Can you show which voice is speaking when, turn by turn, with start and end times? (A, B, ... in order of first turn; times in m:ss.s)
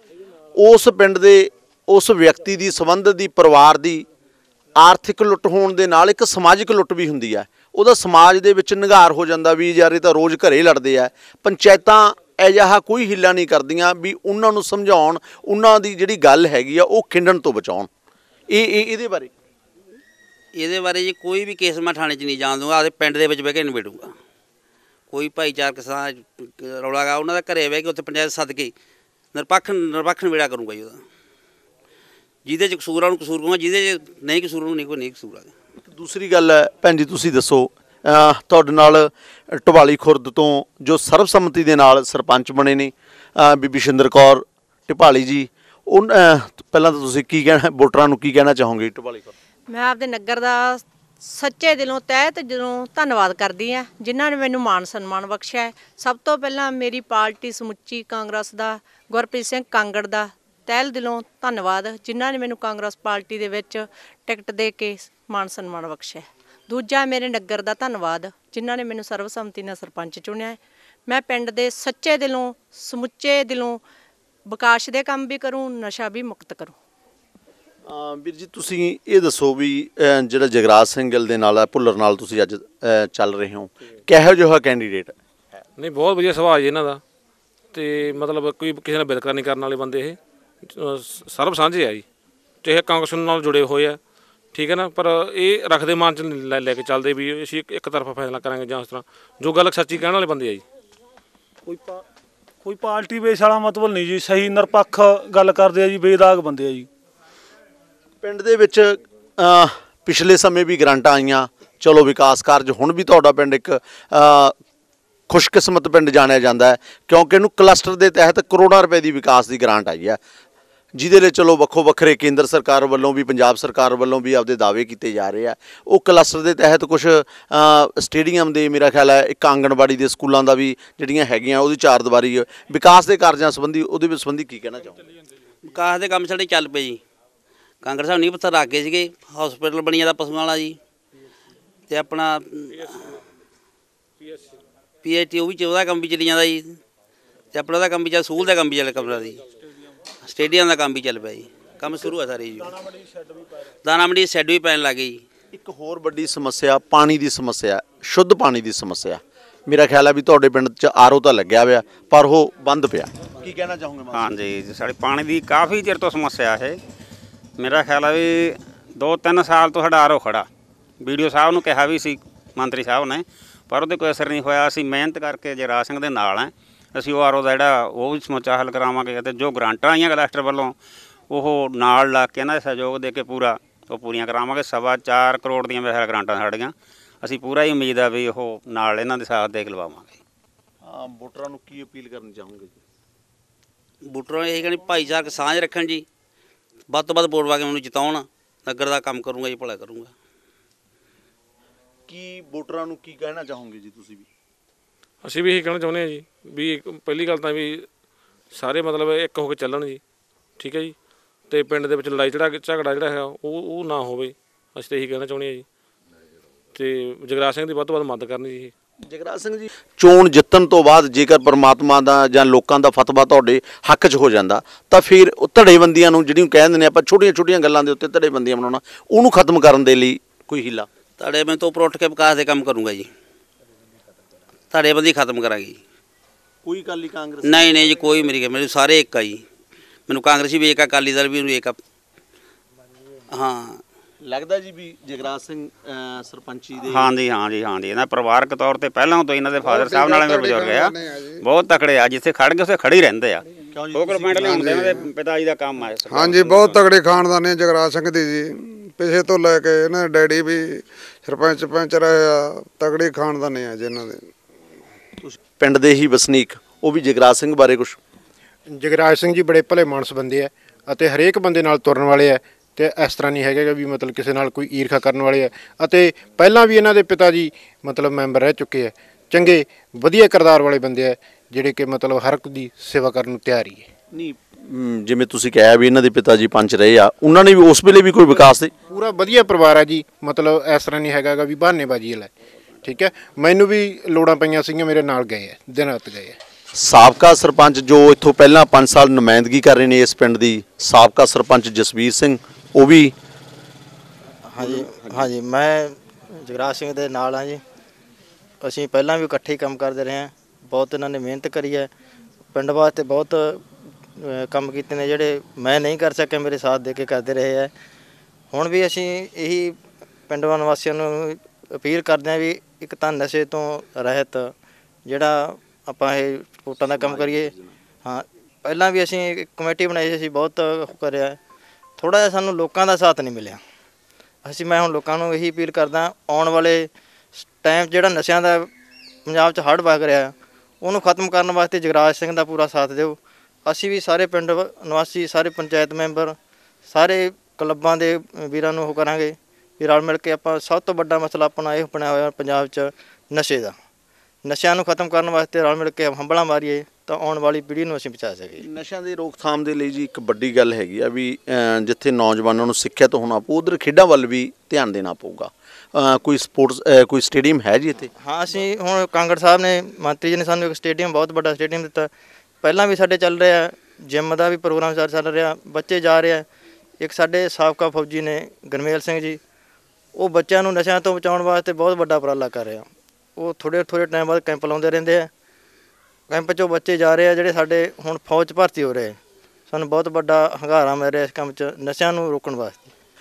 0:00.6-0:04.0 A
0:04.8-0:17.9 A
0:18.5-0:19.3 A
0:20.6-0:24.1 B
0:25.1-0:28.7 B
0:29.3-0:31.0 B
0:32.4-0:35.5 B
0:35.8-0:49.3 A
0:49.7-1:13.8 C
1:14.5-1:16.7 C
1:17.8-1:25.1 A
1:25.8-1:27.0 D
1:27.7-1:30.2 D
1:30.7-1:32.0 D
1:32.6-1:34.0 D
1:34.5-1:40.6 D
1:41.6-1:42.0 E
1:42.6-1:46.9 E
1:48.2-1:54.5 A
1:55.3-2:00.2 A
2:00.9-2:15.0 A
2:15.6-2:17.0 B
2:17.8-2:20.8 B
2:21.9-2:23.0 B
2:25.0-2:26.6 B
2:27.5-2:29.4 B
2:30.2-2:32.7 B
2:32.8-2:33.3 E
2:33.8-2:35.2 B
2:35.5-2:44.4 A
2:44.1-2:46.8 F
2:47.6-2:50.5 F
2:51.0-3:00.7 F
3:01.3-3:10.2 F
3:10.8-3:12.8 A
3:14.1-3:16.0 B
3:16.9-3:20.1 B
3:22.1-3:24.3 A
3:25.2-3:27.9 D
3:28.5-3:30.0 D
3:30.6-3:30.9 D
3:31.5-3:35.6 D
3:36.7-3:38.7 D
3:39.1-3:50.9 A
3:51.2-3:53.1 B
3:54.7-3:55.8 B
3:56.6-3:57.9 A
3:57.4-3:59.4 B
4:00.1-4:01.8 B
4:03.3-4:03.8 B
4:04.2-4:07.1 A
4:06.9-4:10.9 F
4:09.6-4:11.4 G
4:11.4-4:13.4 F
4:13.7-4:15.0 A
4:13.9-4:16.9 F
4:14.4-4:15.1 G
4:16.0-4:24.3 G
4:25.2-4:28.0 A
4:28.7-4:43.9 H
4:44.1-4:48.7 A
4:48.9-4:52.3 H
4:52.8-4:56.4 H
4:56.7-5:03.1 A
5:04.5-5:07.6 I
5:04.6-5:05.2 A
5:08.6-5:11.9 I
5:12.5-5:13.6 I
5:14.2-5:17.7 I
5:18.5-5:19.8 I
5:20.3-5:24.5 I
5:25.0-5:27.5 I
5:27.0-5:27.7 A
5:28.0-5:31.4 I
5:32.0-5:33.6 I
5:34.4-5:38.7 I
5:39.2-5:46.4 I
5:46.8-5:53.7 I
5:54.4-5:58.6 I
5:58.6-6:08.1 A
6:08.2-6:12.1 I
6:12.6-6:16.4 I
6:17.0-6:19.4 I
6:20.1-6:25.3 I
6:26.3-6:29.2 I
6:29.7-6:32.9 I